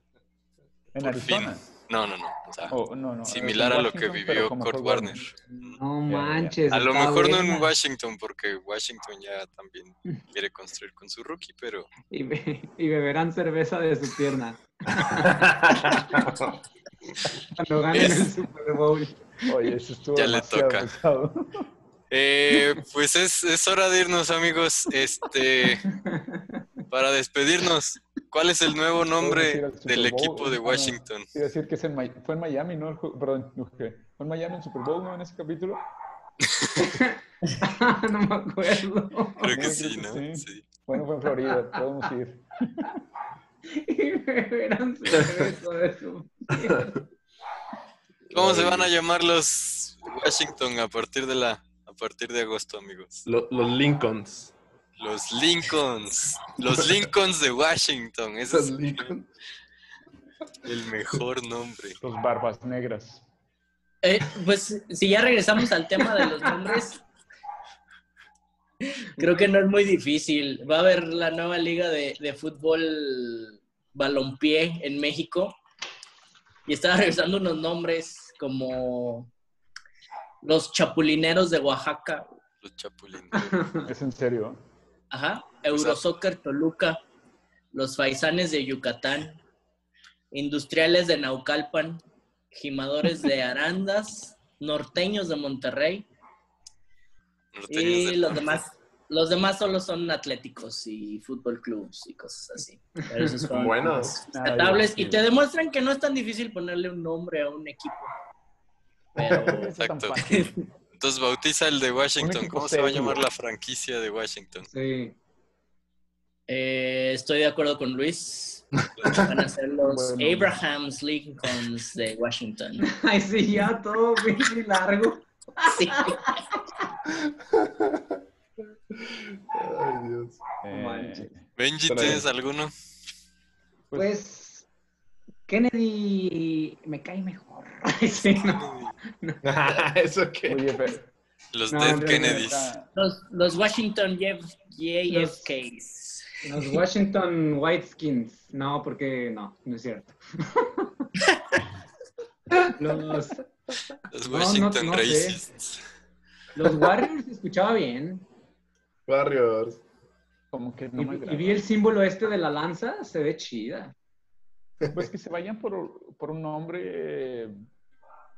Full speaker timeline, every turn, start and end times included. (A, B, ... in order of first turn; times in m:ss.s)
0:00.9-0:01.6 A
0:01.0-0:05.3 B
0:02.7-0:05.3 A
0:05.6-0:07.6 C
0:06.1-0:06.6 A
0:06.7-0:11.9 B
0:12.1-0:15.5 C
0:15.0-0:16.6 D
0:17.6-0:19.4 C
0:17.9-0:18.4 B
0:19.4-0:21.7 A
0:20.1-0:20.9 B
0:22.1-0:25.9 B
0:25.9-0:26.6 C
0:26.9-0:31.3 B
0:29.2-0:35.8 A
0:36.8-0:39.6 C
0:39.4-0:40.6 B
0:39.5-0:43.0 A
0:43.7-0:46.9 C
0:46.6-0:47.0 D
0:48.3-0:48.9 D
0:48.3-0:53.2 B
0:53.2-0:54.5 D
0:55.0-0:59.1 B
0:58.5-0:59.3 D
1:00.6-1:02.0 B
1:02.0-1:03.2 A
1:04.0-1:07.0 E
1:08.8-1:15.6 E
1:16.7-1:19.3 E
1:20.4-1:22.3 E
1:22.6-1:23.7 B
1:23.3-1:23.9 C
1:23.9-1:24.6 A
1:25.1-1:27.0 E
1:25.7-1:26.0 B
1:27.7-1:29.4 E
1:30.3-1:36.1 E
1:37.5-1:38.6 B
1:37.7-1:48.1 E
1:43.5-1:44.2 D
1:44.3-1:45.3 A
1:49.2-1:49.7 E
1:49.3-1:50.6 A
1:49.8-1:50.2 B
1:50.3-1:50.6 E
1:51.0-1:54.7 B
1:52.2-1:53.2 A
1:54.7-1:55.2 C
1:56.5-2:02.9 E
1:59.0-1:59.3 D
1:59.8-2:00.6 A
2:02.9-2:06.3 C
2:05.6-2:06.4 E
2:07.1-2:08.2 D
2:08.9-2:10.6 D
2:10.6-2:11.4 A
2:10.7-2:11.3 C
2:11.6-2:12.7 B
2:11.9-2:12.3 D
2:13.9-2:14.2 A
2:14.0-2:14.7 C
2:15.5-2:19.8 C
2:18.2-2:19.0 B
2:19.4-2:20.7 D
2:20.5-2:21.1 A
2:21.5-2:22.7 B
2:21.7-2:22.4 C
2:22.2-2:22.9 A
2:23.0-2:26.3 E
2:25.1-2:25.5 C
2:26.4-2:31.1 C
2:32.6-2:33.5 C
2:34.1-2:35.8 B
2:34.3-2:35.4 C
2:36.6-2:38.3 C
2:39.1-2:39.8 D
2:40.5-2:41.6 A
2:41.0-2:43.9 C
2:44.9-2:47.6 A